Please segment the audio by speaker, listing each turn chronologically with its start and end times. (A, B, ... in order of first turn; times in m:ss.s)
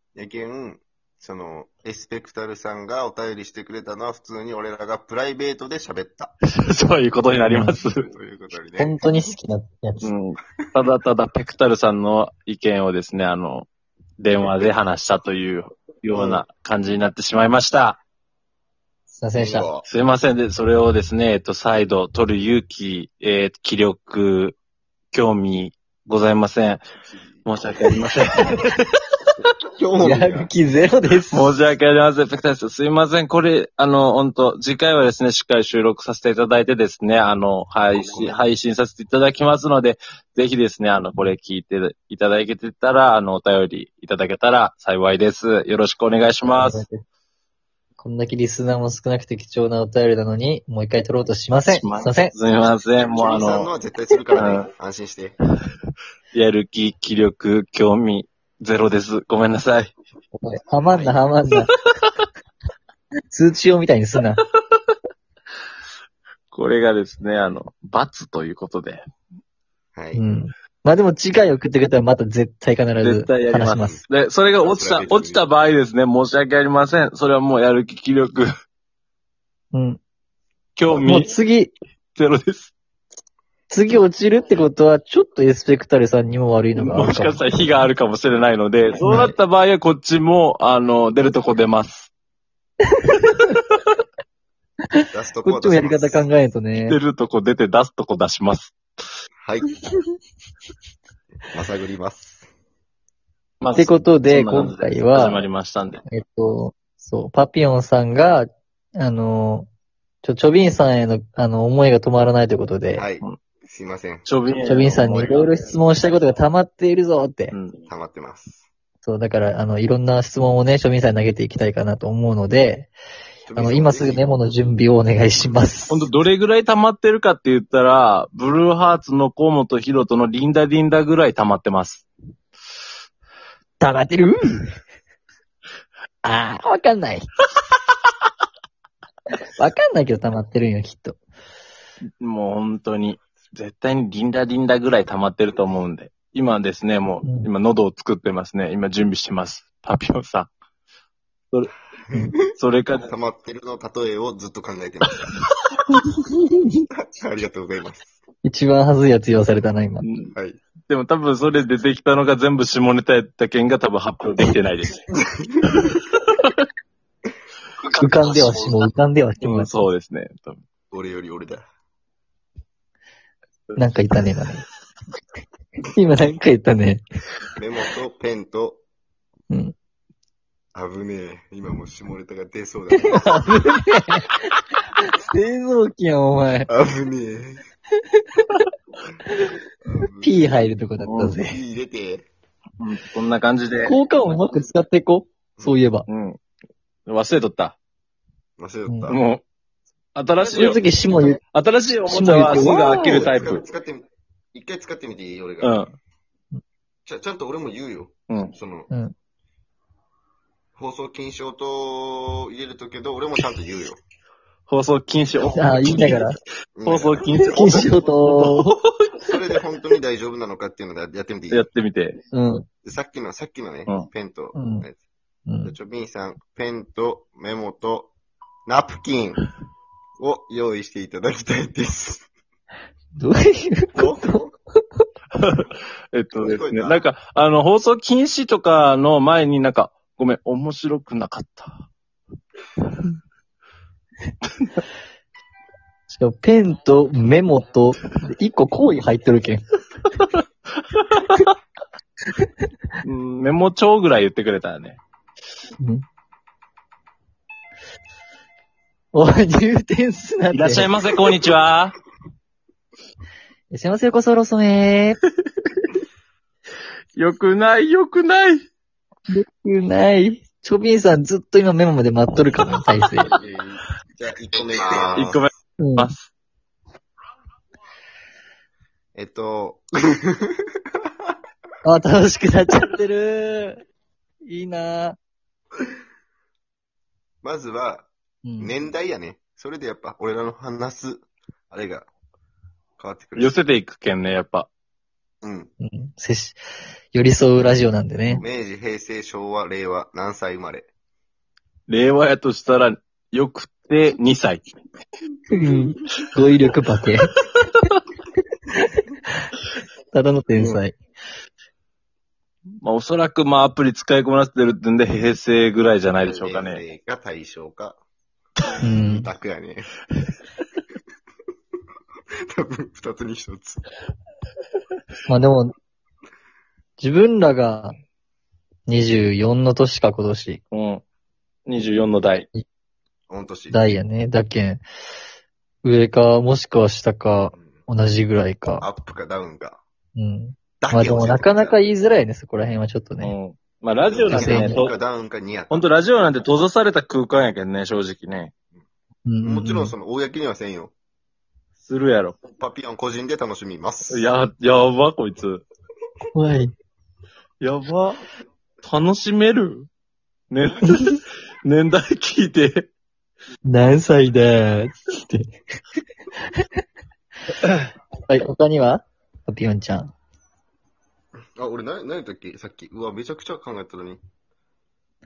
0:00.2-0:06.3 A
0:06.5-0:08.1 B
0:07.5-0:07.8 C
0:08.0-0:09.3 A
0:08.8-0:10.1 C
0:10.0-0:18.0 B
0:14.4-0:14.7 A
0:16.1-0:16.4 A
0:19.1-0:19.7 C
0:19.4-0:19.8 A
0:19.8-0:24.6 B
0:25.1-0:26.8 B
0:27.4-0:28.8 B
0:29.7-0:30.5 A
0:30.0-0:31.6 C
0:31.3-0:46.8 B
0:38.0-0:38.4 A
0:46.5-0:47.0 C
0:48.0-0:52.3 C
0:51.6-0:53.7 B
0:53.0-0:55.4 A
0:54.4-0:54.7 B
0:56.3-0:59.9 B
1:00.4-1:01.7 C
1:00.9-1:01.2 A
1:03.3-1:04.4 C
1:06.5-1:09.0 B
1:10.0-1:10.2 A
1:10.1-1:14.0 C
1:13.0-1:18.5 B
1:13.7-1:14.0 A
1:14.6-1:15.4 A
1:19.7-1:20.0 C
1:20.8-1:21.4 B
1:21.0-1:21.8 C
1:22.2-1:22.7 B
1:23.7-1:27.5 C
1:26.8-1:32.1 B
1:29.0-1:29.3 C
1:33.2-1:33.4 C
1:35.0-1:37.0 C
1:35.1-1:36.3 A
1:36.8-1:38.8 B
1:39.4-1:39.7 A
1:41.5-1:42.5 A
1:43.6-1:46.0 B
1:43.8-1:45.4 C
1:46.1-1:49.7 C
1:50.2-1:53.1 C
1:53.0-1:54.3 A
1:54.2-1:55.5 B
1:54.6-1:57.5 C
1:57.5-1:57.8 B
1:57.9-1:58.6 A
1:59.0-2:02.9 C
2:03.5-2:04.3 A
2:03.6-2:06.0 C
2:05.9-2:12.1 B
2:13.8-2:14.8 C
2:16.2-2:17.3 C
2:19.6-2:21.2 C
2:22.2-2:30.5 B
2:27.2-2:27.5 C
2:32.5-2:33.1 B
2:33.0-2:35.4 A
2:37.0-2:38.2 A
2:38.4-2:40.1 C
2:40.0-2:40.3 B
2:40.3-2:40.6 A
2:40.9-2:45.0 B
2:45.3-2:45.9 A
2:45.7-2:46.6 B
2:47.9-2:48.8 B
2:48.0-2:49.9 C
2:49.4-2:50.6 B
2:50.9-2:51.6 A
2:53.8-2:54.6 C
2:55.9-2:57.0 C
2:57.6-2:58.8 A
2:59.5-2:59.8 C
3:00.8-3:03.7 A
3:03.2-3:04.4 C
3:05.0-3:06.7 C
3:06.7-3:07.6 A
3:09.9-3:10.7 A
3:10.2-3:11.6 C
3:11.0-3:11.4 B
3:11.4-3:12.3 A
3:12.8-3:13.9 B
3:13.8-3:16.1 C
3:16.1-3:16.4 B
3:17.1-3:17.8 B
3:18.6-3:19.2 A
3:19.1-3:19.4 B
3:20.2-3:20.8 B
3:20.4-3:21.4 A
3:20.5-3:21.4 C
3:21.5-3:23.6 B
3:22.1-3:23.2 C
3:22.3-3:25.8 A
3:25.6-3:25.9 B
3:27.1-3:28.9 A
3:30.8-3:34.0 A
3:34.7-3:36.2 B
3:35.6-3:36.4 C
3:36.8-3:38.0 A
3:36.8-3:39.2 B
3:37.5-3:38.8 C
3:39.2-3:41.7 A
3:41.5-3:42.2 B
3:42.3-3:42.6 C
3:42.8-3:45.0 A
3:44.6-3:44.9 C
3:45.5-3:45.7 C
3:45.6-3:48.1 A
3:48.7-3:49.4 A
3:50.2-3:52.3 A
3:53.2-3:54.4 C
3:53.9-3:54.5 A
3:55.4-4:01.8 B
3:56.4-3:57.0 A
4:06.1-4:09.6 C
4:10.9-4:11.5 B
4:13.0-4:15.0 B
4:19.1-4:20.9 C
4:20.5-4:22.0 B
4:23.7-4:25.2 C
4:27.2-4:28.6 B
4:29.3-4:33.3 C
4:33.3-4:35.5 A
4:35.1-4:36.3 B
4:35.8-4:36.1 C
4:39.2-4:39.8 A
4:41.8-4:43.8 C
4:44.4-4:45.2 C
4:47.4-4:52.1 A
4:48.4-4:48.7 C
4:53.0-4:53.6 A
4:53.4-4:54.7 B
4:55.4-4:55.7 A
4:55.8-4:56.6 C
4:57.1-4:58.4 C
4:58.4-5:00.9 A
5:01.9-5:04.6 B
5:05.5-5:07.3 C
5:10.1-5:11.0 C
5:10.6-5:10.8 A
5:12.8-5:16.8 B
5:16.2-5:18.0 A
5:18.8-5:19.3 C
5:19.0-5:19.9 A
5:22.5-5:23.8 A
5:25.3-5:25.7 C
5:27.0-5:28.0 C
5:28.9-5:30.6 C
5:30.7-5:31.0 B
5:31.7-5:32.5 B
5:33.3-5:33.8 A
5:33.7-5:34.8 C
5:35.8-5:38.9 C
5:38.8-5:39.8 A
5:40.2-5:43.3 C
5:40.8-5:41.8 A
5:43.2-5:45.0 B
5:44.1-5:46.1 A
5:44.3-5:44.8 C
5:45.7-5:48.5 B
5:49.3-5:50.0 C
5:49.4-5:50.9 A
5:51.8-5:52.4 B
5:52.6-5:54.3 A
5:54.1-5:55.6 B
5:56.3-5:56.7 C
5:57.6-5:58.2 B
5:58.8-5:59.9 B
6:00.5-6:02.9 B
6:03.7-6:05.6 C
6:08.3-6:10.1 C
6:11.6-6:14.2 A